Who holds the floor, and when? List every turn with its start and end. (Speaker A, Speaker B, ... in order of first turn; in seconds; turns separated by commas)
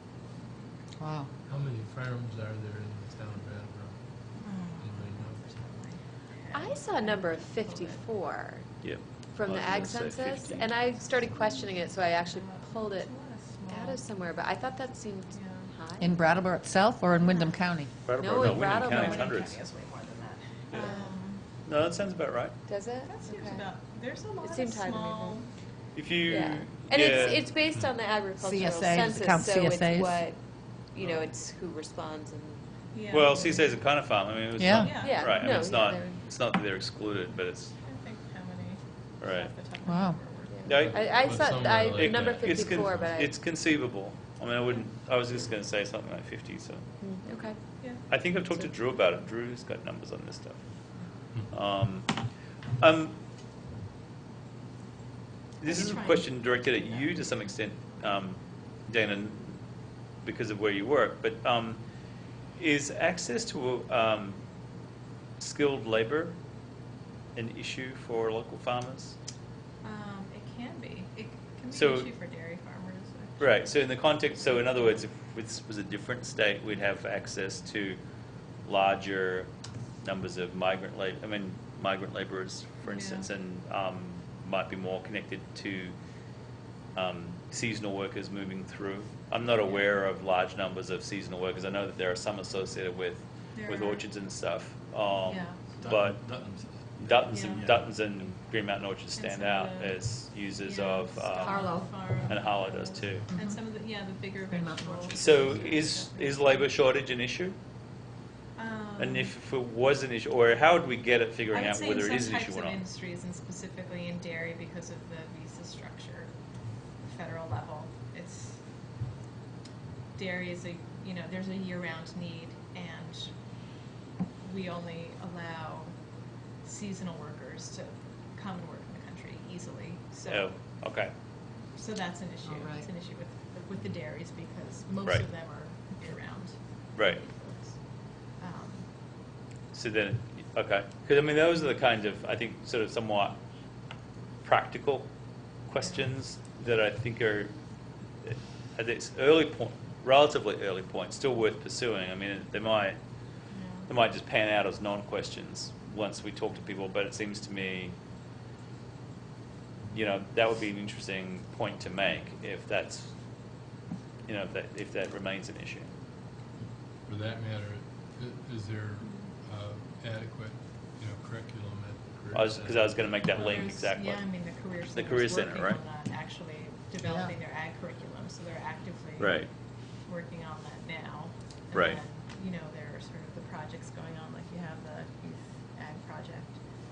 Speaker A: 1.0-1.3, Speaker B: 1.5-5.4, Speaker C: 4.4-8.0, Speaker D: 6.5-8.8, Speaker E: 8.8-10.8, Speaker D: 9.3-13.2, Speaker C: 11.2-14.0, Speaker D: 13.7-16.1, Speaker C: 15.3-15.7, Speaker A: 16.0-17.9, Speaker C: 17.1-17.5, Speaker E: 18.1-19.6, Speaker D: 18.2-19.4, Speaker C: 18.6-21.5, Speaker D: 20.8-21.1, Speaker E: 21.5-22.6, Speaker D: 22.7-23.7, Speaker C: 23.0-25.5, Speaker D: 24.4-25.4, Speaker E: 25.9-27.5, Speaker D: 26.3-32.6, Speaker A: 28.4-30.2, Speaker C: 32.9-33.8, Speaker E: 33.1-37.8, Speaker A: 34.6-34.9, Speaker C: 34.7-35.4, Speaker D: 35.0-36.2, Speaker C: 37.8-40.8, Speaker E: 39.2-39.5, Speaker A: 39.9-40.2, Speaker D: 40.5-43.3, Speaker B: 40.6-43.2, Speaker E: 40.7-41.0, Speaker E: 41.9-46.9, Speaker D: 47.0-47.6, Speaker C: 47.8-48.0, Speaker E: 47.9-50.6, Speaker E: 51.5-52.2, Speaker E: 52.8-53.2, Speaker E: 55.6-59.6, Speaker C: 55.6-57.0, Speaker E: 60.2-61.8, Speaker E: 62.6-64.4, Speaker E: 65.4-66.4, Speaker E: 67.3-69.2, Speaker C: 69.8-75.0, Speaker E: 71.7-72.1, Speaker E: 73.4-78.0, Speaker E: 78.7-79.5, Speaker E: 80.0-86.0, Speaker C: 82.8-83.3, Speaker E: 86.9-96.2, Speaker C: 89.6-90.0, Speaker C: 93.5-94.1, Speaker C: 95.3-95.9, Speaker B: 95.8-97.9, Speaker E: 97.0-103.3, Speaker C: 97.3-97.7, Speaker C: 99.2-106.7, Speaker A: 101.4-101.9, Speaker A: 103.3-103.6, Speaker A: 104.5-105.6, Speaker E: 105.2-107.6, Speaker C: 108.6-109.3, Speaker E: 109.0-112.8, Speaker C: 111.5-116.3, Speaker C: 117.0-118.6, Speaker C: 120.2-123.4, Speaker C: 124.4-126.0, Speaker C: 126.6-130.5, Speaker E: 130.3-131.1, Speaker C: 131.7-138.9, Speaker A: 132.5-132.9, Speaker E: 136.9-137.2, Speaker E: 139.7-143.4, Speaker E: 144.4-145.1, Speaker E: 145.7-147.5, Speaker E: 148.2-153.0, Speaker C: 153.5-153.9, Speaker E: 153.9-157.9, Speaker E: 159.9-163.1, Speaker E: 164.3-165.9, Speaker B: 167.1-173.0, Speaker E: 172.3-174.3, Speaker C: 173.3-179.4, Speaker E: 174.9-175.8, Speaker A: 177.0-177.3, Speaker E: 179.2-179.5, Speaker C: 180.0-186.6, Speaker E: 181.7-182.0